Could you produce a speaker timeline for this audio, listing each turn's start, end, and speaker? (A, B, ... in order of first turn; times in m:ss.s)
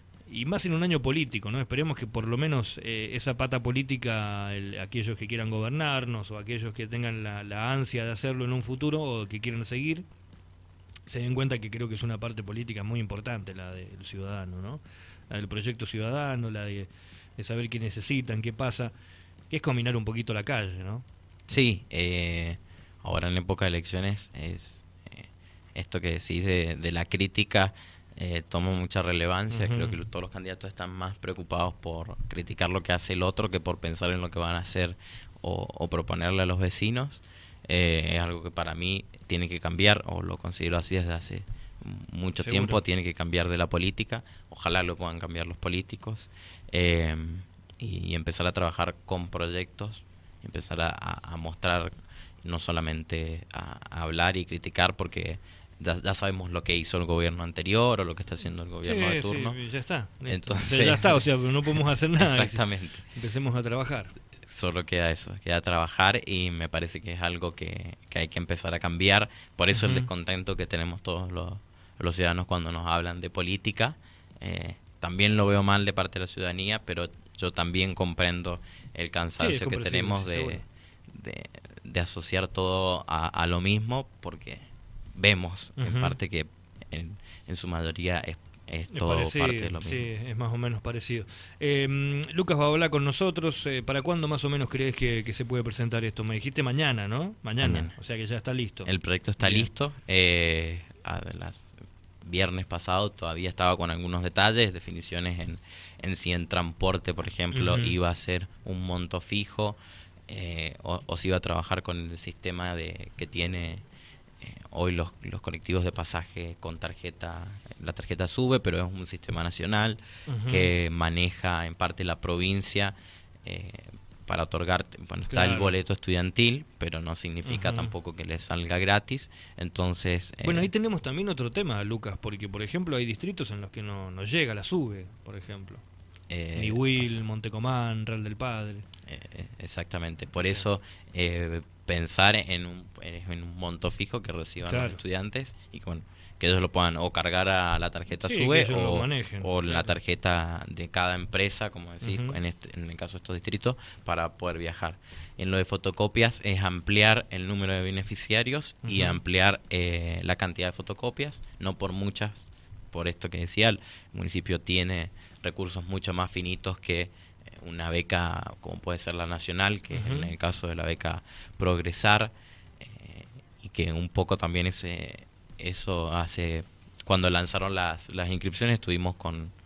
0:00.3-0:10.0 A
0:11.0-0:18.9 A
0:19.5-0:21.0 A
0:21.5-0:59.6 B
0:29.5-0:30.0 A
0:42.4-0:42.8 A
0:58.8-1:04.1 A
1:00.3-1:03.1 B
1:04.4-1:30.1 B
1:09.7-1:10.1 A
1:19.4-1:20.6 A
1:25.8-1:26.1 A
1:28.9-1:39.7 A
1:37.6-1:37.9 B
1:38.8-1:53.8 B
1:47.5-1:48.0 A
1:54.4-2:10.7 B
2:00.3-2:00.7 A
2:05.3-2:05.7 A
2:07.4-2:07.9 A
2:10.4-2:15.8 A
2:16.3-2:17.2 B
2:16.5-2:18.8 A
2:19.1-2:59.5 B
2:20.4-2:20.7 A
2:24.6-2:25.0 A
2:28.2-2:29.9 A
2:32.0-2:32.4 A
2:38.8-2:39.2 A
2:49.9-2:50.3 A